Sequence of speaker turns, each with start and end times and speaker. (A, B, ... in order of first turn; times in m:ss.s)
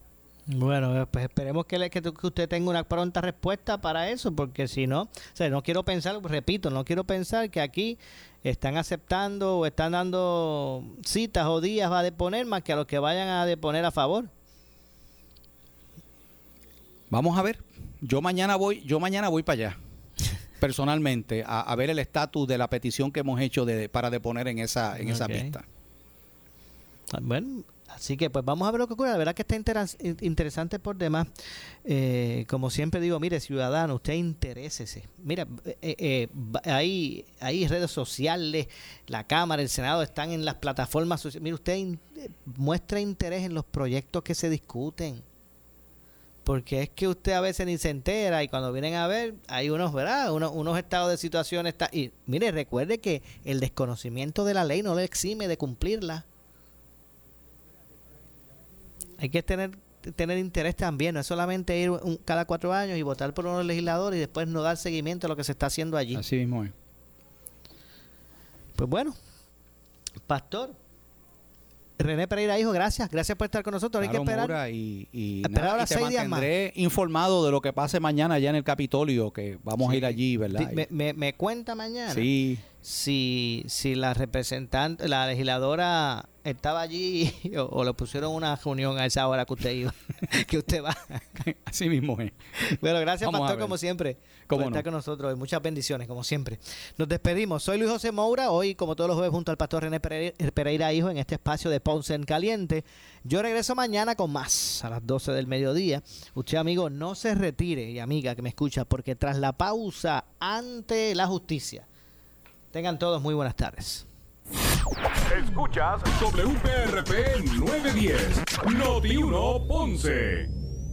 0:00.5-0:14.3 A
0:17.1-0:19.8 B
0:20.6-0:25.6 B
0:25.0-0:25.6 A
0:27.1-0:31.3 A
0:31.8-0:45.2 A
0:46.4-0:56.2 A
0:59.2-1:06.2 A
1:06.1-1:06.7 B
1:08.8-1:09.2 A
1:10.3-1:10.8 A
1:12.0-1:14.6 A
1:14.0-1:20.8 B
1:15.4-1:16.5 A
1:19.8-1:22.3 A
1:22.1-1:22.6 B
1:22.8-1:31.3 A
1:31.4-1:32.5 B
1:32.6-1:51.9 A
1:33.2-1:33.8 B
1:34.5-1:34.8 B
1:52.7-1:54.0 A
1:55.3-2:00.5 C